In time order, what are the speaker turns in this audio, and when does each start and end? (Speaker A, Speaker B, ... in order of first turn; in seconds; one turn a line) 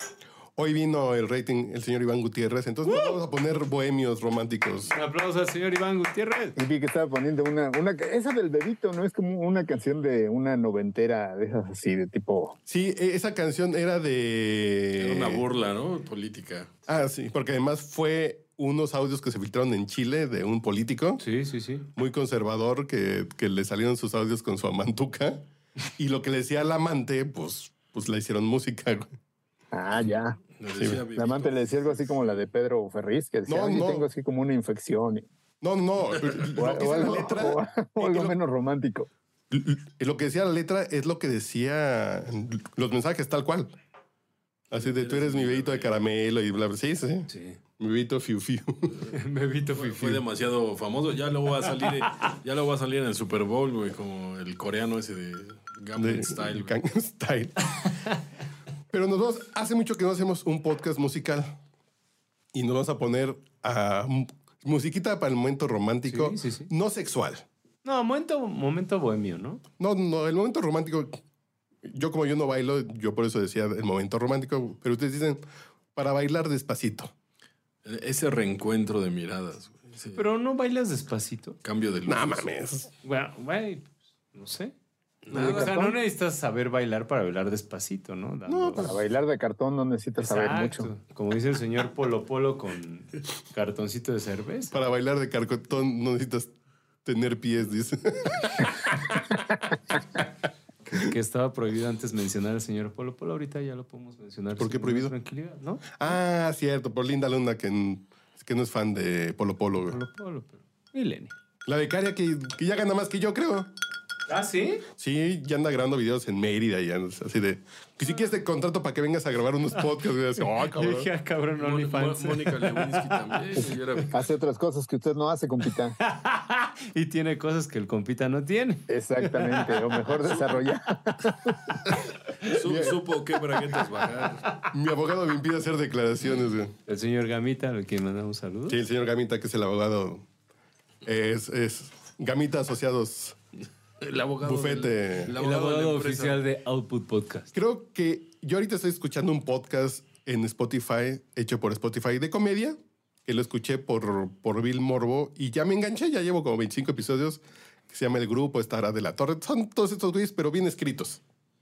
Speaker A: 0.6-4.9
Speaker B: 4.9-6.6
Speaker C: 6.6-12.6
Speaker A: 12.7-15.4
Speaker D: 15.0-16.9
Speaker A: 16.9-21.2
Speaker B: 21.2-21.9
Speaker A: 22.0-25.4
Speaker A: 26.0-29.1
Speaker C: 29.7-30.4
Speaker D: 30.5-32.2
Speaker C: 31.2-35.3
Speaker A: 33.5-34.1
Speaker A: 35.6-38.4
Speaker C: 36.6-39.1
Speaker A: 39.5-43.7
Speaker A: 44.7-48.9
Speaker D: 44.7-45.9
Speaker B: 47.3-47.6
Speaker B: 49.1-50.2
Speaker D: 49.8-56.7
Speaker A: 56.0-57.5
Speaker A: 58.9-61.6
Speaker A: 62.5-67.5
Speaker B: 66.1-66.7
Speaker B: 67.8-69.6
Speaker A: 69.8-71.2
Speaker A: 71.8-75.4
Speaker A: 76.0-77.1
Speaker D: 77.8-80.2
Speaker B: 80.2-81.6
Speaker D: 81.6-82.5
Speaker A: 82.1-82.9
Speaker B: 83.0-84.7
Speaker D: 85.2-85.9
Speaker C: 85.3-86.0
Speaker B: 85.3-88.9
Speaker A: 88.5-89.0
Speaker C: 88.8-90.9
Speaker B: 90.2-94.8
Speaker A: 94.7-96.5
Speaker A: 97.0-99.2
Speaker B: 100.9-106.2
Speaker A: 104.6-105.1
Speaker A: 106.0-110.0
Speaker B: 109.9-111.3
Speaker A: 111.7-113.7
Speaker B: 114.3-114.8
Speaker A: 115.0-121.1
Speaker B: 120.4-123.4
Speaker D: 121.6-124.2
Speaker C: 124.1-126.0
Speaker B: 126.0-130.1
Speaker C: 128.9-131.7
Speaker D: 132.5-134.4
Speaker A: 132.7-133.0
Speaker A: 134.7-136.7
Speaker B: 136.9-138.8
Speaker A: 138.7-140.2
Speaker A: 141.1-143.4
Speaker D: 144.0-146.4
Speaker A: 144.4-145.3
Speaker B: 145.4-147.5
Speaker A: 147.5-161.2